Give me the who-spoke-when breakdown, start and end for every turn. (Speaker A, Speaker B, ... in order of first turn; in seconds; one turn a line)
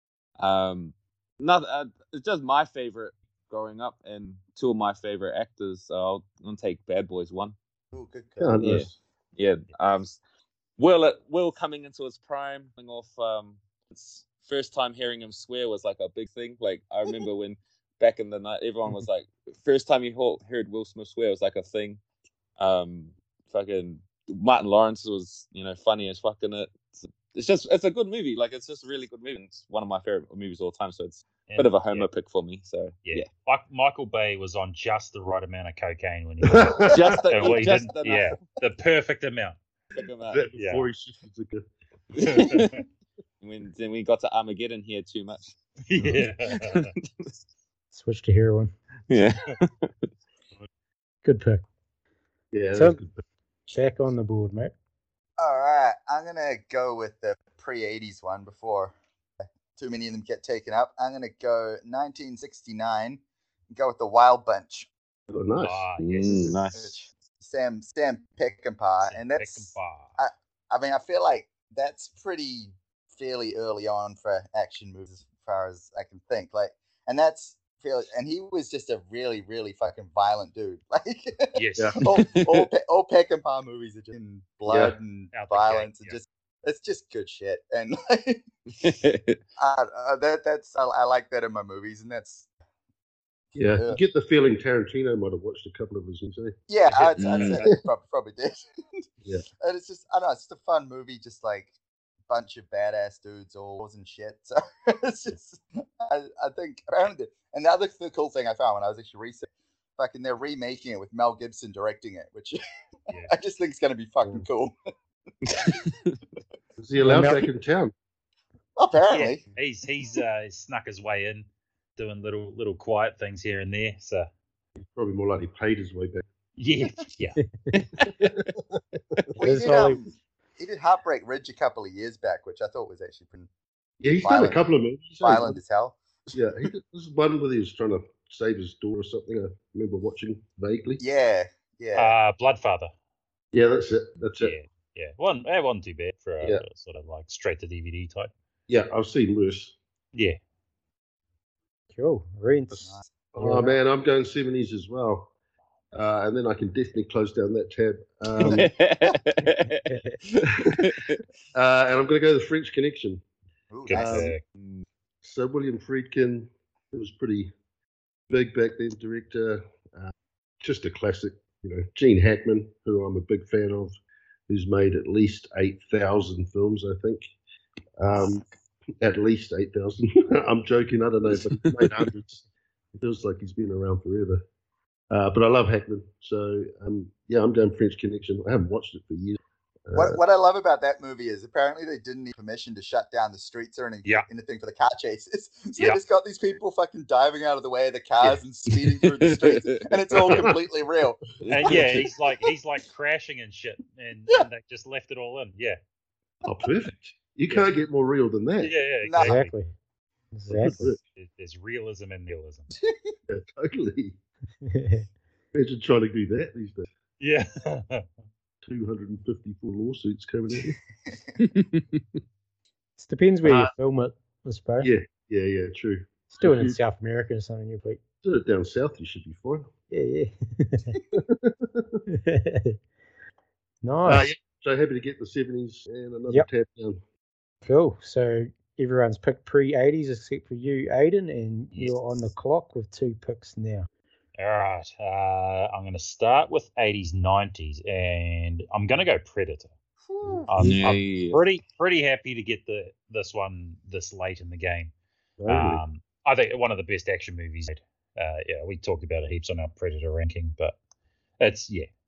Speaker A: 0.4-7.5
Speaker B: 7.9-8.8
Speaker C: 8.4-8.9
Speaker A: 8.6-10.2
Speaker A: 10.8-22.0
Speaker A: 22.6-33.3
Speaker D: 31.5-32.1
Speaker D: 33.0-39.6
Speaker C: 36.4-37.7
Speaker A: 36.9-38.4
Speaker A: 39.9-40.5
Speaker C: 40.2-41.7
Speaker D: 40.5-40.9
Speaker A: 42.1-42.8
Speaker D: 42.2-42.8
Speaker A: 43.4-45.5
Speaker D: 45.9-46.9
Speaker A: 46.5-47.3
Speaker E: 47.9-48.7
Speaker A: 49.1-50.1
Speaker E: 51.2-51.6
Speaker C: 52.5-53.2
Speaker E: 52.7-53.0
Speaker E: 53.7-54.7
Speaker B: 55.4-58.9
Speaker B: 59.8-63.2
Speaker B: 63.7-64.9
Speaker C: 65.3-66.6
Speaker D: 65.6-66.6
Speaker A: 66.0-67.0
Speaker B: 66.7-88.4
Speaker D: 69.0-70.1
Speaker D: 81.5-82.0
Speaker A: 82.1-82.6
Speaker C: 84.7-85.0
Speaker D: 85.3-86.1
Speaker A: 88.7-89.4
Speaker B: 89.6-92.5
Speaker C: 93.5-96.5
Speaker B: 93.7-94.0
Speaker B: 96.7-99.0
Speaker D: 96.9-97.7
Speaker A: 97.2-97.6
Speaker B: 99.6-101.7
Speaker B: 102.3-112.6
Speaker B: 113.3-114.7
Speaker A: 115.5-115.9
Speaker C: 116.8-117.9
Speaker E: 117.0-117.5
Speaker B: 118.8-119.4
Speaker D: 119.1-124.3
Speaker C: 124.8-126.2
Speaker D: 126.6-127.4
Speaker E: 127.4-127.7
Speaker A: 127.8-128.3
Speaker C: 128.0-129.3
Speaker B: 129.4-133.5
Speaker E: 129.4-130.0
Speaker C: 134.0-135.6
Speaker B: 134.2-134.6
Speaker B: 135.2-136.0
Speaker C: 136.3-141.0
Speaker B: 141.0-142.1
Speaker D: 141.9-142.9
Speaker C: 143.5-144.6
Speaker D: 144.4-148.3
Speaker C: 148.7-149.8
Speaker D: 150.1-150.4
Speaker E: 151.9-153.8
Speaker C: 152.7-155.3
Speaker C: 155.9-158.7
Speaker A: 158.4-161.2
Speaker E: 159.8-160.2
Speaker C: 160.4-160.9
Speaker C: 161.5-163.2
Speaker B: 163.7-164.3
Speaker D: 163.9-164.4
Speaker C: 163.9-164.3
Speaker C: 165.2-167.5
Speaker C: 168.3-173.9
Speaker C: 174.5-177.3
Speaker C: 178.0-178.4
Speaker C: 179.0-182.4
Speaker A: 181.4-182.0
Speaker C: 182.9-184.4
Speaker C: 185.1-190.2
Speaker B: 189.9-201.2
Speaker A: 199.0-199.9
Speaker C: 200.2-200.5
Speaker A: 201.4-201.8
Speaker D: 201.5-205.8
Speaker C: 201.6-202.1
Speaker C: 206.4-208.7
Speaker D: 208.6-209.5
Speaker B: 209.0-209.4
Speaker E: 209.2-209.7
Speaker E: 210.3-211.0
Speaker C: 210.5-211.0
Speaker D: 211.1-212.7
Speaker C: 213.3-214.2
Speaker E: 214.6-215.0
Speaker C: 215.5-216.9
Speaker D: 217.2-218.1
Speaker C: 218.6-220.8
Speaker A: 221.4-222.0
Speaker E: 223.0-224.9
Speaker C: 223.4-223.7
Speaker C: 224.8-226.8
Speaker E: 226.3-228.0
Speaker C: 228.2-229.7
Speaker E: 229.9-231.0
Speaker C: 231.1-232.0
Speaker E: 232.1-232.8
Speaker E: 233.8-234.3
Speaker C: 234.0-237.0
Speaker E: 237.6-243.9
Speaker D: 244.4-249.7
Speaker B: 250.2-250.4
Speaker D: 250.5-254.9
Speaker A: 250.6-251.4
Speaker C: 255.4-255.8
Speaker D: 255.5-260.8
Speaker D: 261.4-261.9